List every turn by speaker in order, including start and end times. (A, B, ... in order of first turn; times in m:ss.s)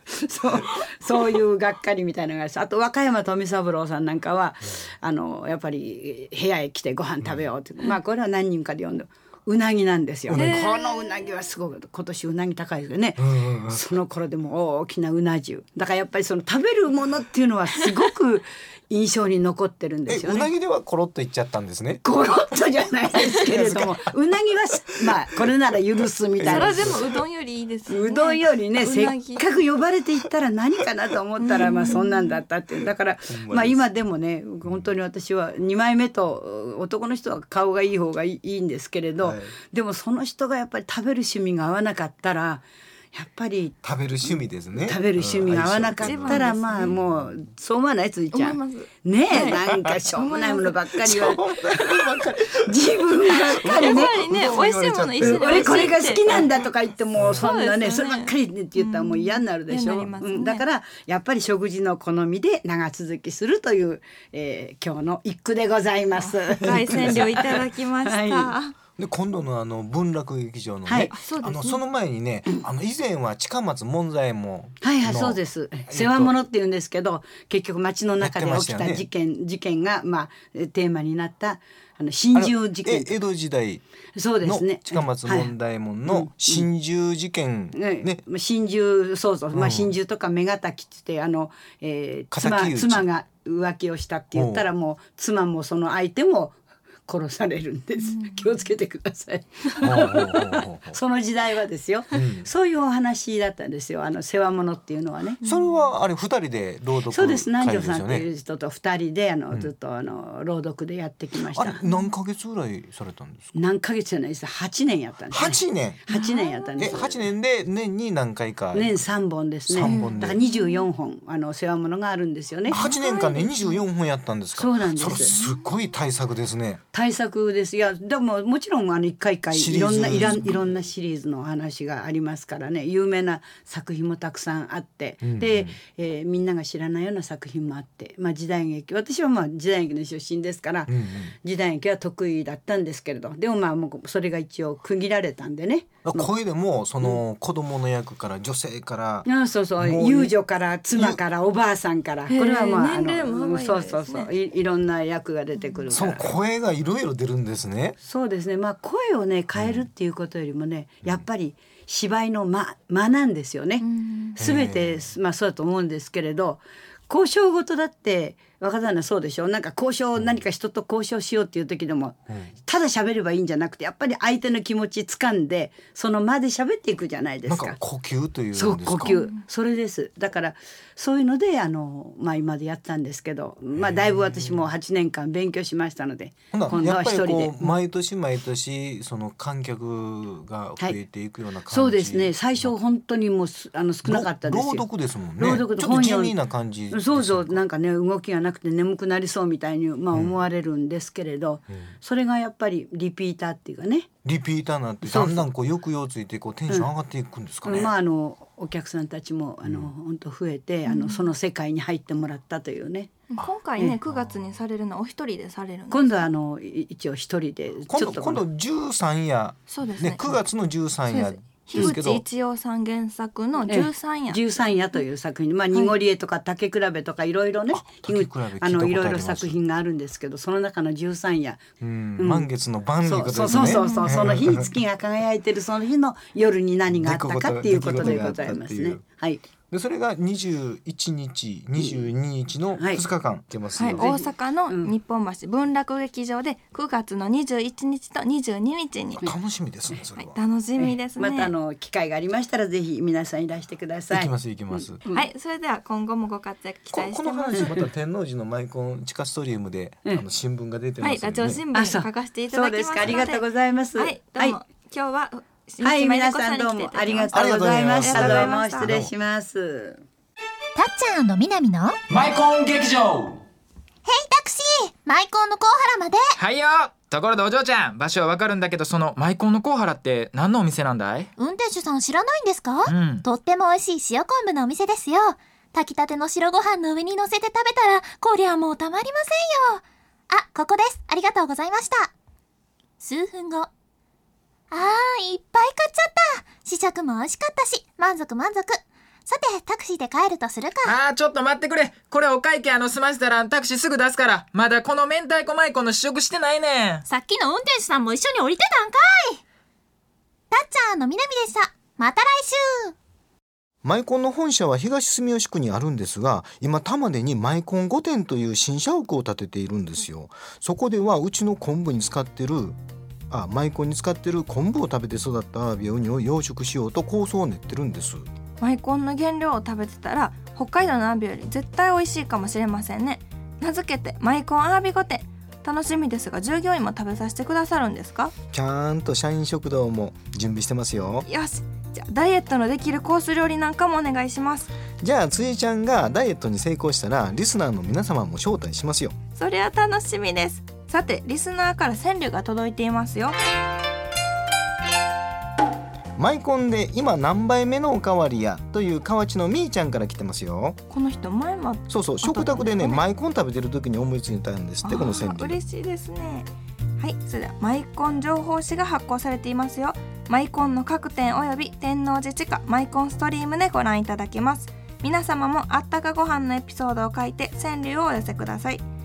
0:00.2-0:20.5 A
0:07.2-0:07.5 B
0:10.3-0:10.7 B
0:10.3-0:10.7 C
0:13.2-0:13.8 B
0:20.1-0:22.0 B
0:22.0-0:26.9 A
0:23.2-0:24.0 B
0:26.4-0:27.2 B
0:26.4-0:29.4 C
0:27.9-0:51.9 A
0:31.4-0:32.4 C
0:33.3-0:33.8 B
0:34.6-0:34.9 B
0:39.2-0:39.6 B
0:43.8-0:47.4 B
0:46.0-0:46.9 C
0:48.3-0:50.8 C
0:49.4-0:50.1 B
0:51.0-0:56.5 B
0:52.6-0:54.3 A
0:53.7-0:56.5 C
0:55.2-1:08.5 A
0:57.2-0:57.5 B
0:57.4-1:00.6 C
1:06.2-1:08.7 C
1:06.7-1:07.3 B
1:09.0-1:16.3 B
1:10.8-1:11.1 A
1:11.1-1:11.8 C
1:14.8-1:23.2 A
1:18.2-1:19.1 B
1:22.3-1:23.8 B
1:24.2-1:25.5 A
1:24.4-1:28.2 B
1:26.0-1:26.6 A
1:27.7-1:45.4 A
1:29.5-1:29.9 B
1:32.3-1:33.1 B
1:34.3-1:34.7 B
1:39.8-1:41.0 B
1:42.1-1:42.5 B
1:45.4-1:48.2 B
1:45.4-1:45.8 C
1:47.1-1:51.8 A
1:51.5-1:53.5 B
1:53.6-1:57.3 A
1:55.3-1:56.0 B
1:56.1-1:57.0 C
1:56.8-1:59.0 B
1:58.7-2:02.9 A
1:59.6-2:00.4 B
1:59.8-2:00.8 C
2:02.7-2:03.8 C
2:02.7-2:06.8 B
2:04.5-2:05.3 A
2:06.9-2:26.3 A
2:09.5-2:10.7 B
2:15.2-2:15.8 B
2:20.9-2:21.3 B
2:26.0-2:30.3 B
2:29.2-2:36.3 A
2:30.9-2:31.2 B
2:32.3-2:34.3 C
2:35.6-2:35.8 C
2:35.9-2:38.0 B
2:38.0-2:57.8 A
2:39.5-2:39.9 B
2:43.8-2:44.4 C
2:44.4-2:45.1 B
2:57.4-2:59.2 B
2:58.5-3:07.7 A
2:59.0-2:59.4 C
3:03.8-3:04.7 B
3:06.5-3:12.7 B
3:11.7-3:14.9 A
3:14.0-3:17.6 B
3:15.4-3:16.4 A
3:16.9-3:24.1 A
3:24.2-3:27.9 B
3:25.0-3:25.4 A
3:27.6-3:33.2 A
3:29.6-3:29.9 B
3:30.8-3:31.3 C
3:33.3-3:36.3 C
3:34.1-3:34.5 B
3:35.9-3:38.4 A
3:37.9-3:42.2 B
3:39.7-3:40.2 C
3:41.1-3:44.4 C
3:43.6-3:51.6 A
3:47.7-3:49.5 B
3:51.8-3:54.7 B
3:52.2-3:52.5 A
3:53.0-3:59.4 A
3:53.5-3:54.2 C
3:56.9-3:59.0 B
3:59.7-4:04.0 B
4:02.8-4:03.0 A
4:03.8-4:09.2 C
4:03.9-4:04.9 A
4:09.2-4:10.4 B
4:10.2-4:11.5 C
4:10.8-4:15.2 A
4:14.1-4:15.0 B
4:15.1-4:17.6 C
4:16.9-4:21.6 B
4:21.0-4:27.3 C
4:21.7-4:24.6 A
4:25.8-4:30.0 A
4:27.3-4:29.1 B
4:27.9-4:28.9 C
4:30.7-4:31.9 D
4:32.1-4:33.4 E
4:34.0-4:36.2 D
4:36.4-4:41.3 E
4:41.4-4:52.1 D
4:42.8-4:43.2 E
4:53.0-4:53.7 D
4:54.7-5:01.0 D
5:00.8-5:07.0 E
5:07.0-5:09.4 D
5:10.5-5:12.9 D
5:13.8-5:22.8 B
5:23.3-5:28.2 B
5:28.6-5:38.3 C
5:38.5-5:41.2 B
5:41.2-5:44.7 C
5:45.0-5:49.1 B
5:49.3-5:53.4 C
5:56.2-6:00.8 B
6:00.9-6:03.0 C
6:01.9-6:05.6 B
6:04.8-6:18.8 C